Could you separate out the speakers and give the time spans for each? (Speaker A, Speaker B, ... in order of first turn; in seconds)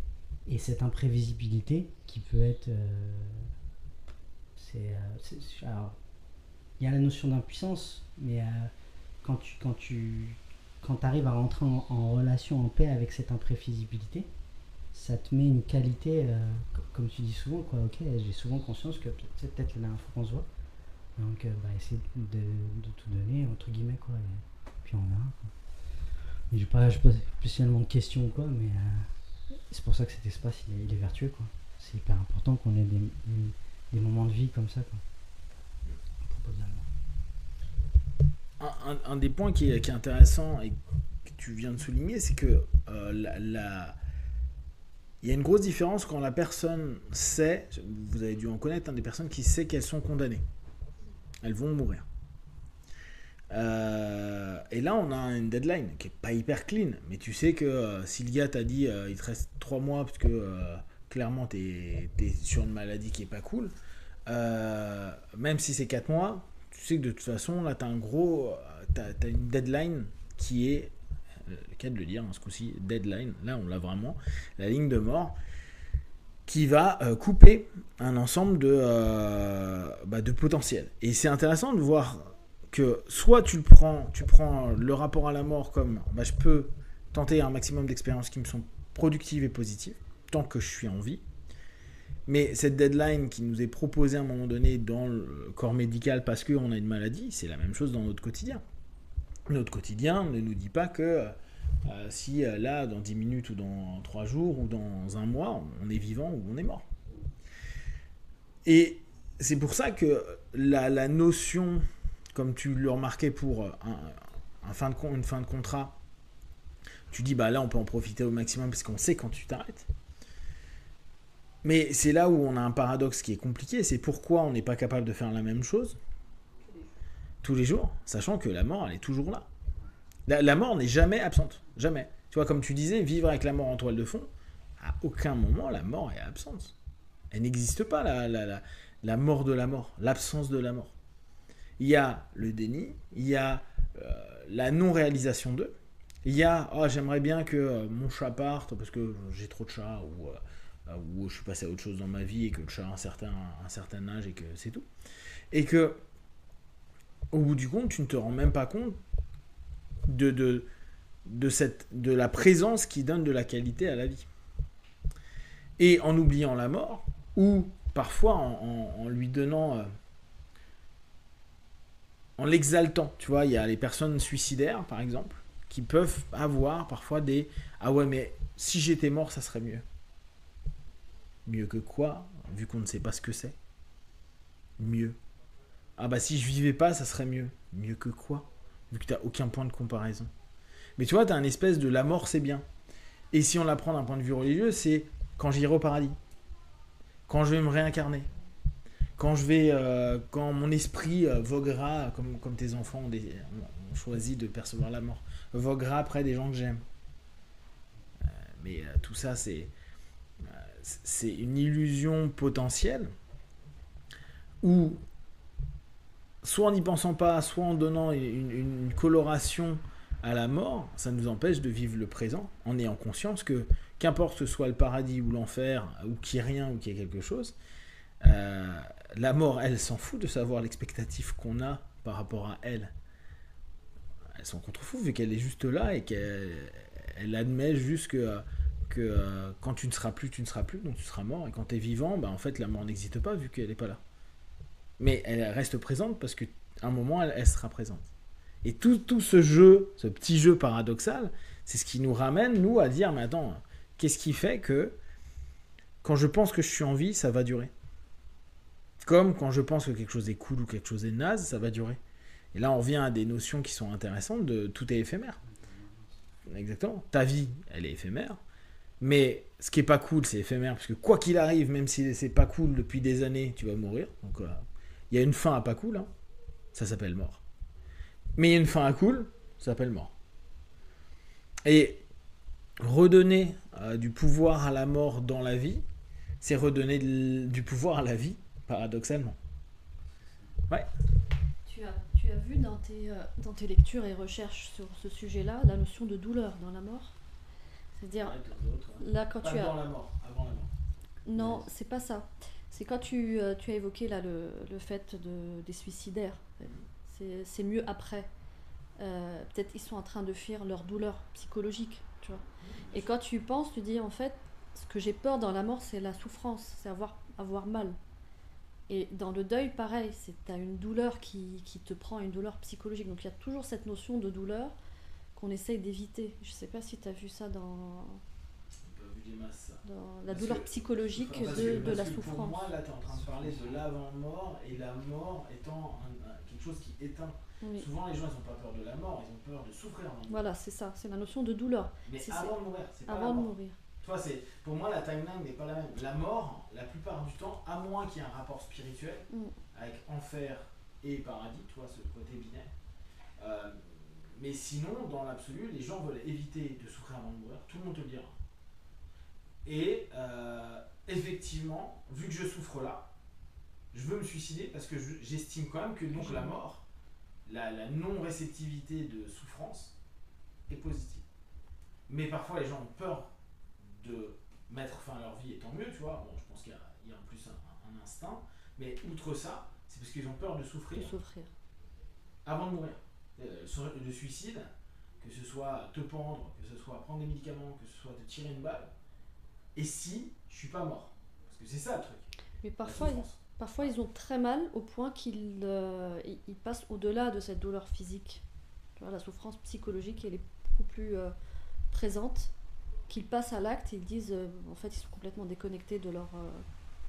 Speaker A: 0.5-3.5, 4.6-6.0, 6.8-14.3, 14.9-20.5, 21.2-25.5, 26.5-29.1, 29.7-35.0, 36.2-36.9
Speaker B: 38.6-40.8, 41.3-44.0, 45.2-50.4, 51.4-52.1, 53.5-63.8, 64.3-70.9, 71.5-75.4, 76.5-91.2, 92.3-98.6, 99.5-106.9, 108.7-116.0, 117.1-119.9, 121.6-126.0, 127.4-129.5, 130.3-136.8, 137.3-140.9, 141.8-154.9, 155.5-156.0, 157.3-159.0, 160.1-160.7, 161.3-164.3, 165.8-169.9, 172.4-179.8, 181.5-183.6, 184.8-185.2, 186.0-190.3, 191.0-192.7, 193.3-196.2, 197.3-198.3, 199.2-206.8, 208.2-209.7, 210.4-213.1, 214.6-215.0, 216.4-227.6, 228.2-232.9, 234.4-244.0, 245.0-248.1, 248.6-255.0, 256.0-257.7, 259.0-262.0, 262.5-265.4, 266.5-268.4, 269.0-276.1, 276.7-277.4, 278.4-280.1, 281.6-282.0, 282.8-285.9, 286.4-289.4, 298.1-300.7, 301.4-301.7, 312.6-313.1, 328.9-340.4, 342.1-352.7, 353.4-358.4, 359.6-363.1, 363.9-366.9, 367.5-369.9, 370.7-371.2, 372.1-381.1, 382.4-388.9, 389.8-393.9
Speaker C: 291.7-297.2, 297.9-298.4, 299.0-299.8, 301.3-308.3, 309.0-318.0, 318.9-324.8, 325.4-328.2, 329.8-332.7, 337.6-337.9, 340.3-342.6, 343.1-343.8, 349.3-349.6, 366.1-366.6, 380.9-381.5, 392.6-398.4, 399.0-401.3, 401.9-402.5, 403.1-406.6